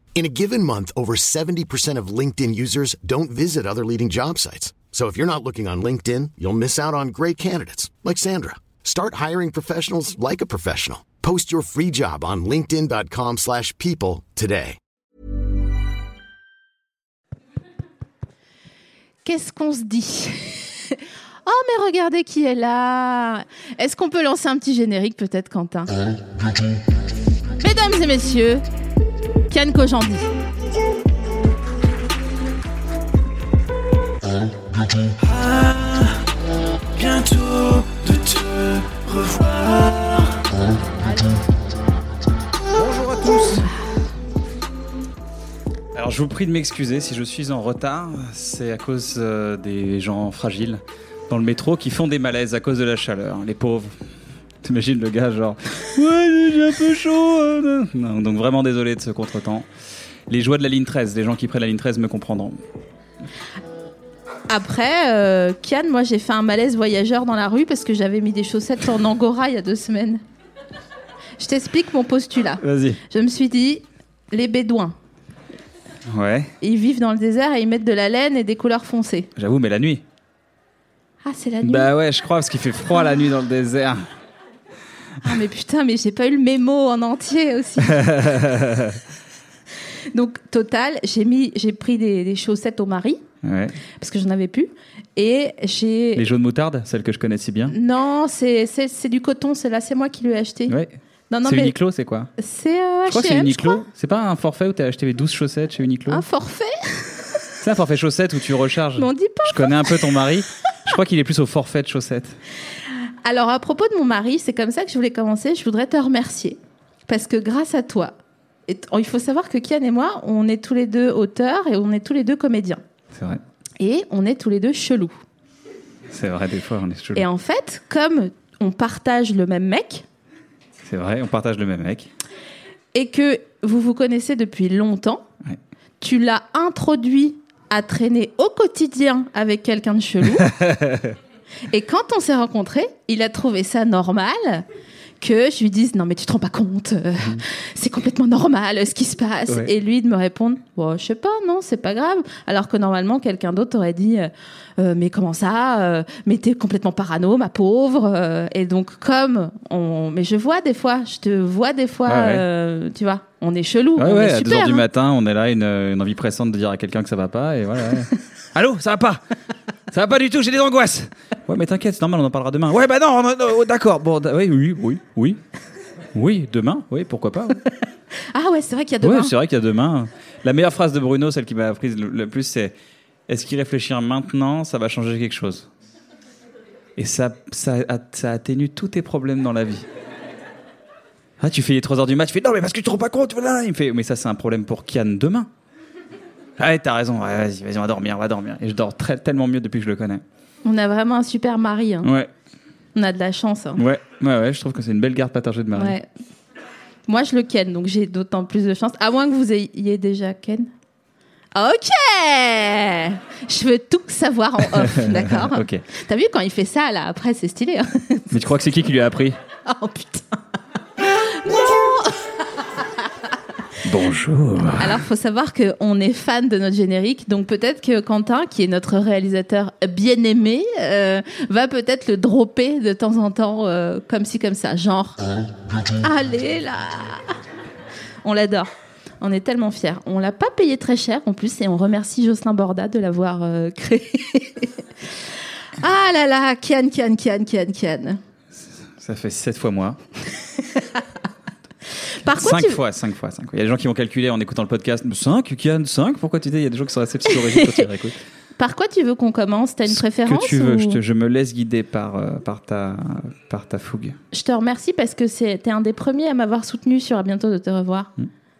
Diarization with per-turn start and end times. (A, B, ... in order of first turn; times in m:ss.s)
0:00.2-0:14.8 A
0:19.2-0:25.9 B
0:27.6-0:28.6 B
0:29.5-0:30.3 B
0:35.2-0:36.2 C
0:37.0-0:40.4 C
0:42.7-0:43.7 C
0:45.9-0:54.0 C
0:54.6-0:59.7 C
1:00.3-1:02.6 C
1:04.5-1:10.2 B
1:11.4-1:15.0 B
1:12.6-1:13.0 C
1:16.1-1:16.5 C
1:16.6-1:19.3 B
1:19.4-1:20.0 C
1:21.2-1:21.9 B
1:21.6-1:24.1 C
1:25.2-1:28.1 B
1:27.8-1:29.0 C
1:30.1-1:33.2 B
1:33.4-1:33.8 C
1:34.0-1:36.3 B
1:36.2-1:37.8 C
1:37.7-1:40.8 B
1:40.7-1:42.3 C
1:41.3-1:41.8 B
1:42.4-1:43.8 B
1:43.1-1:46.2 C
1:46.1-1:47.4 B
1:47.6-1:52.4 C
1:49.0-1:50.1 B
1:53.2-1:58.2 B
1:58.7-2:02.8 B
2:03.1-2:03.4 C
2:03.8-2:05.1 B
2:06.1-2:07.3 C
2:07.2-2:10.0 B
2:10.8-2:12.1 C
2:12.9-2:15.2 B
2:16.0-2:20.5 B
2:20.2-2:21.2 C
2:21.7-2:24.7 B
2:25.2-2:44.8 B
2:27.2-2:27.4 C
2:42.1-2:42.5 C
2:44.0-2:49.2 C
2:49.9-2:55.4 C
2:56.1-2:57.6 C
2:58.3-2:59.4 B
2:59.0-3:02.8 C
3:03.3-3:05.7 C
3:07.0-3:09.9 C
3:11.4-3:15.5 C
3:16.6-3:20.2 C
3:20.6-3:22.1 B
3:22.0-3:22.3 C
3:23.0-3:23.8 B
3:23.8-3:26.0 C
3:25.8-3:26.1 B
3:27.1-3:30.7 B
3:31.6-3:38.4 B
3:34.6-3:35.8 C
3:38.3-3:39.4 C
3:39.6-3:40.4 B
3:41.0-3:42.8 B
3:43.8-3:45.0 C
3:44.7-3:55.2 B
3:56.0-3:57.4 B
3:58.2-4:04.8 B
4:05.8-4:08.2 B
4:08.5-4:10.0 C
4:10.7-4:11.0 B
4:12.1-4:12.8 B
4:12.3-4:18.2 C
4:17.3-4:17.8 B
4:18.6-4:21.0 B
4:19.9-4:24.2 C
4:24.3-4:28.1 B